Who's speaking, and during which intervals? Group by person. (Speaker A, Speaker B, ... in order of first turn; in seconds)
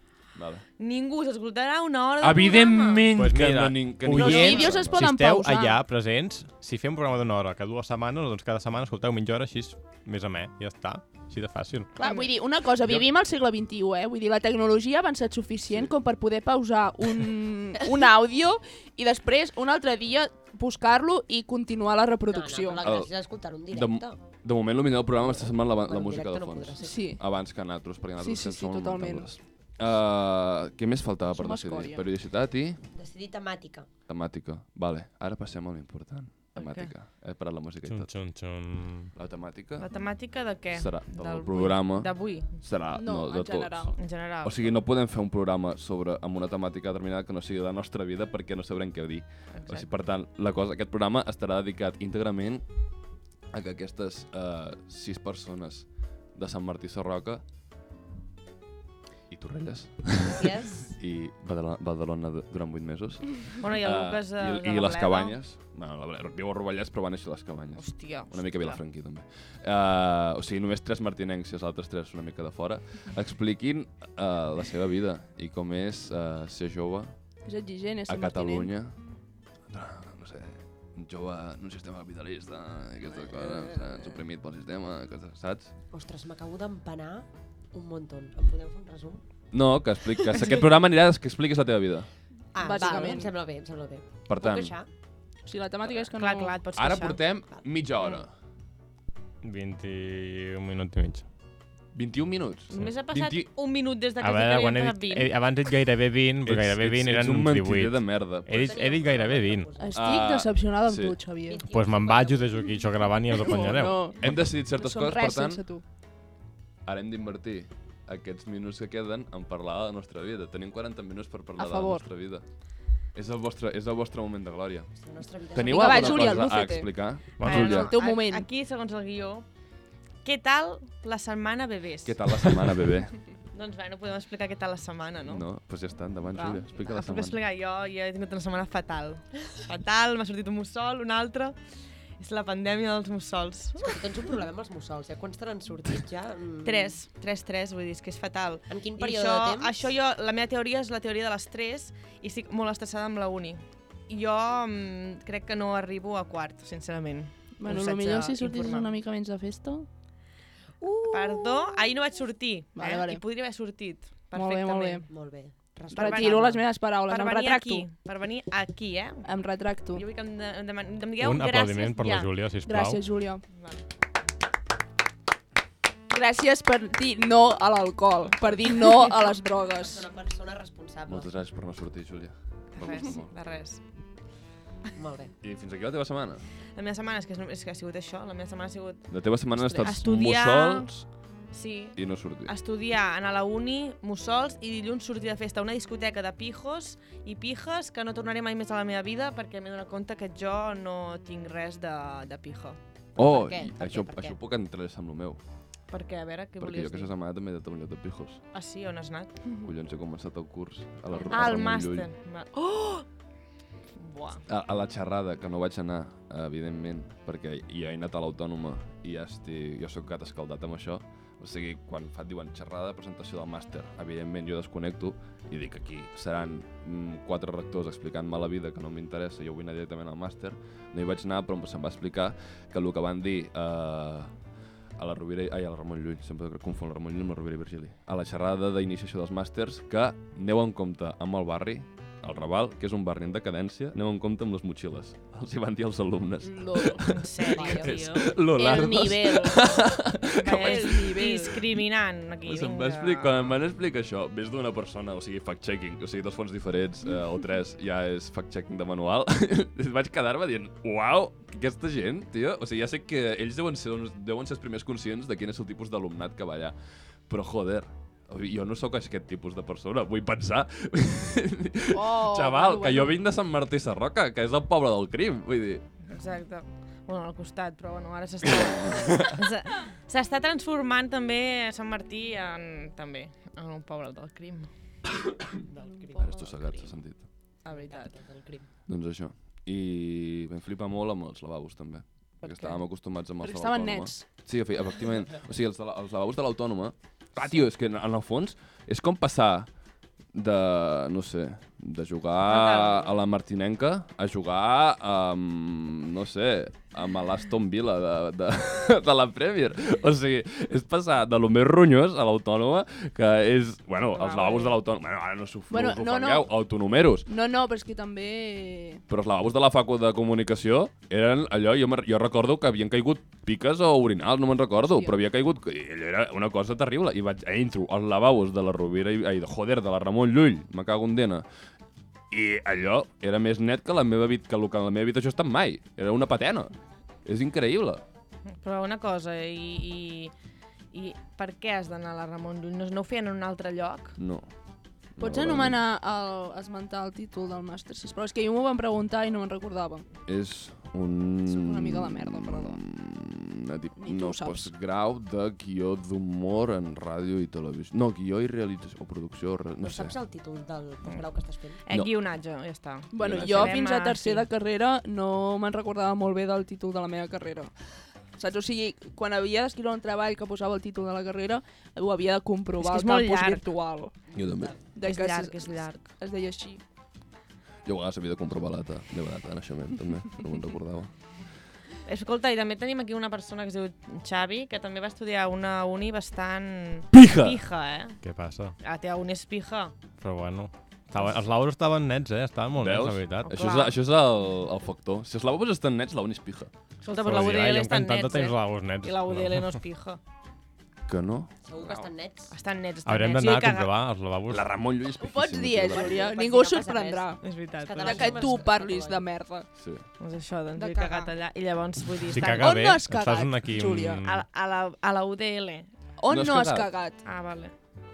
Speaker A: 0.3-0.6, 2.2-5.0, 15.7-15.9, 22.8-23.1, 23.7-32.8, 34.1-38.1, 39.1-39.9, 40.7-52.7, 53.5-57.4, 59.3-77.1, 78.1-78.9, 79.7-85.7, 89.5-92.1, 94.3-94.7, 96.7-98.3, 101.9-103.5, 106.4-108.8, 109.9-111.2, 114.2-115.6, 116.8-122.4, 123.1-124.9, 125.5-127.9, 132.0-133.1, 135.2-137.4, 181.1-183.3, 185.4-186.4, 189.1-191.1, 191.9-192.5, 203.2-205.4, 206.6-208.4, 209.6-212.1, 214.5-234.3, 235.0-251.2, 252.4-266.7, 267.3-275.8, 278.4-279.4, 286.2-287.2, 288.9-299.7, 300.3-317.3, 319.1-331.4, 332.3-336.7, 337.2-338.0, 344.2-344.5, 345.2-345.8, 350.3-360.1, 363.2-363.8, 374.3-374.7, 377.8-381.1, 387.1-387.6, 392.8-396.7, 401.1-402.1, 404.5-406.2, 409.8-410.0, 416.3-416.9
Speaker B: 0.8-3.1, 4.3-4.6, 12.0-12.3, 36.5-36.9, 39.8-42.6, 44.0-44.7, 49.5-49.9, 63.6-65.3, 67.8-68.8, 96.2-97.2, 102.7-105.3, 127.4-129.4, 130.2-132.8, 133.5-135.4, 136.7-141.6, 142.2-143.9, 146.6-158.9, 161.1-165.0, 165.9-169.3, 169.9-172.3, 173.5-173.8, 182.8-183.8, 186.7-190.9, 191.5-202.8, 205.9-207.1, 208.5-209.3, 211.3-213.1, 214.0-214.4, 247.1-248.4, 250.4-253.5, 276.1-284.7, 287.6-288.1, 302.4-303.1, 314.1-314.8, 338.5-340.3, 340.9-344.2, 361.9-364.5, 372.8-373.6, 375.0-376.1, 382.1-388.2, 388.8-389.9, 393.4-394.0, 397.0-400.2, 402.5-403.9, 407.4-408.5, 410.2-412.8, 414.2-415.9, 417.2-417.7
Speaker C: 3.1-11.9, 37.9-39.1, 99.4-101.2, 104.2-109.7, 111.7-114.0, 127.4-127.8, 171.2-173.0, 388.2-388.8, 390.2-393.6, 397.1-399.8, 403.1-404.7, 412.3-414.4
Speaker D: 4.1-5.8, 11.9-22.8, 26.8-27.2, 28.2-29.3, 31.3-32.0, 42.9-44.0, 77.4-78.7, 83.3-84.0, 92.6-93.3, 95.5-96.6, 109.8-111.6, 113.4-115.8, 121.6-122.0, 125.6-127.0, 127.5-128.5, 136.3-136.6, 157.6-159.9, 162.7-163.2, 164.3-165.1, 165.9-167.9, 169.2-170.0, 172.7-173.4, 176.1-180.1, 209.4-209.7, 246.4-247.1, 248.4-249.8, 250.4-251.6, 271.9-273.2, 286.0-286.9, 293.4-294.3, 315.7-316.5, 317.3-319.0, 324.8-325.1, 345.2-350.0, 351.5-352.8, 354.0-354.7, 363.1-367.7, 368.4-374.2, 374.8-376.8, 405.2-407.4, 408.0-409.7, 410.7-411.3, 412.5-414.2, 416.2-417.2
Speaker E: 22.2-24.2, 25.1-27.1, 32.9-33.9, 60.3-60.9, 85.9-89.2, 92.5-94.9, 108.5-110.2, 111.5-112.7, 124.9-126.6, 143.8-147.0, 148.7-149.9, 165.1-166.6, 179.7-181.3, 184.9-185.3, 203.2-204.4, 211.1-211.5, 247.5-247.9, 285.6-286.6, 287.7-288.7, 359.8-361.8, 374.3-374.8, 401.6-402.5, 405.9-409.3